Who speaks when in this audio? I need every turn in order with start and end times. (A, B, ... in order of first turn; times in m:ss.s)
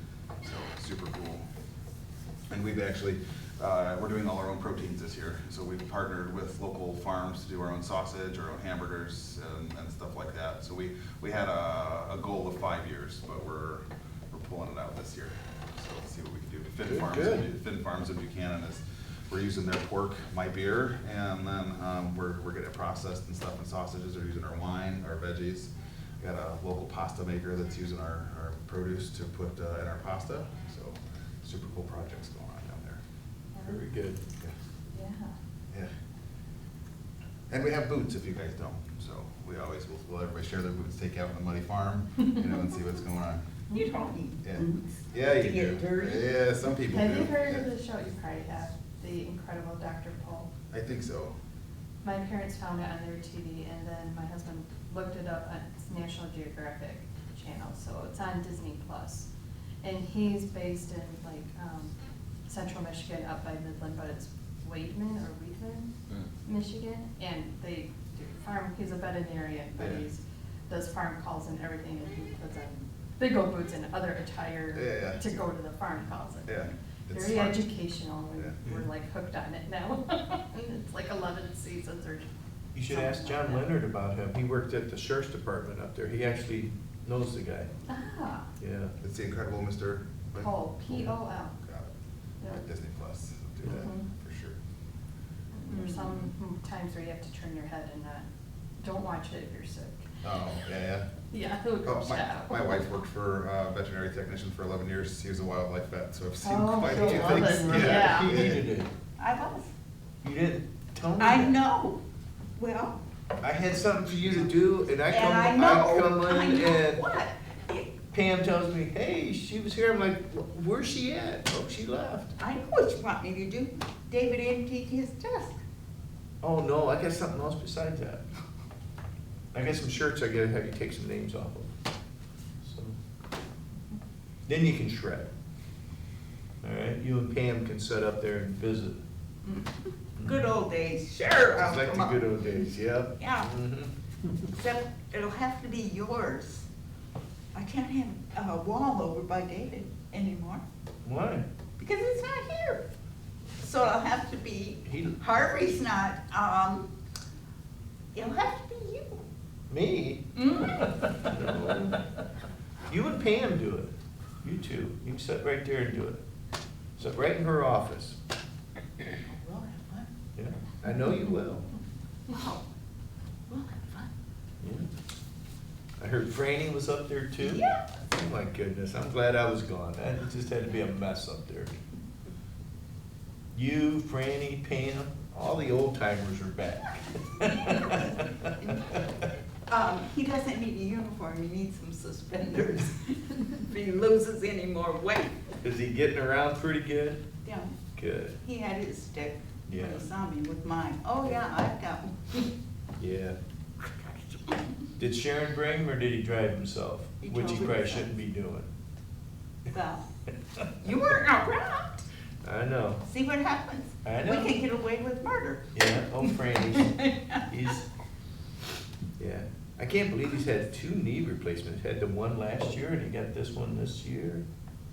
0:00.4-0:01.4 A
0:02.5-0:33.0 A
0:33.5-0:33.8 B
0:33.6-0:34.2 C
0:34.9-0:35.3 B
0:37.5-0:43.4 A
0:43.7-0:46.3 D
0:44.4-0:47.6 A
0:46.9-0:50.5 B
0:50.7-0:51.4 A
0:52.0-0:59.3 B
0:59.8-1:02.0 B
1:02.5-1:05.9 B
1:06.4-1:22.3 B
1:09.8-1:10.1 A
1:14.7-1:15.2 A
1:16.5-1:17.6 A
1:18.4-1:18.7 A
1:22.8-1:27.7 C
1:22.9-1:23.6 B
1:27.9-1:28.5 B
1:28.6-1:28.9 C
1:29.0-1:31.1 A
1:30.4-1:31.6 B
1:31.6-1:34.6 A
1:33.6-1:34.1 B
1:35.5-1:38.3 B
1:38.8-1:40.0 B
1:40.2-1:41.1 A
1:41.3-1:42.8 B
1:41.8-1:48.6 A
1:46.4-1:48.4 B
1:46.8-1:48.9 C
1:49.2-1:49.7 D
1:50.2-1:51.6 C
1:51.2-1:52.0 D
1:52.6-1:53.0 D
1:53.4-1:57.0 C
1:55.1-1:58.0 D
1:58.1-2:02.3 C
2:02.4-2:05.6 D
2:06.4-2:08.2 C
2:09.5-2:11.7 C
2:12.6-2:13.0 C
2:14.5-2:15.3 C
2:16.6-2:19.0 C
2:19.4-2:22.2 D
2:20.2-2:20.5 C
2:21.6-2:23.9 C
2:23.2-2:23.5 D
2:24.5-2:26.6 D
2:27.6-2:30.6 D
2:31.0-2:31.5 C
2:31.8-2:32.8 D
2:33.6-2:36.9 D
2:34.8-2:35.2 C
2:38.2-2:39.2 D
2:39.7-2:40.2 C
2:40.4-2:40.9 D
2:41.2-2:42.0 C
2:42.9-2:43.9 C
2:44.4-2:46.2 C
2:47.0-2:48.2 C
2:49.2-2:50.1 D
2:50.4-2:51.7 C
2:52.3-2:52.7 D
2:53.5-2:54.1 D
2:54.6-2:54.9 C
2:56.0-3:01.8 C
2:57.4-2:57.8 D
3:03.5-3:09.0 C
3:09.7-3:15.4 D
3:15.6-3:17.2 C
3:17.4-3:17.8 D
3:18.0-3:18.4 C
3:18.4-3:22.5 D
3:19.7-3:20.1 C
3:23.0-3:23.4 C
3:23.8-3:24.7 D
3:25.0-3:28.7 C
3:27.2-3:28.1 D
3:29.7-3:30.0 D
3:30.8-3:32.1 D
3:32.4-3:33.0 C
3:33.0-3:35.7 D
3:34.0-3:34.6 C
3:35.7-3:37.9 C
3:36.6-3:37.4 D
3:39.2-3:44.4 C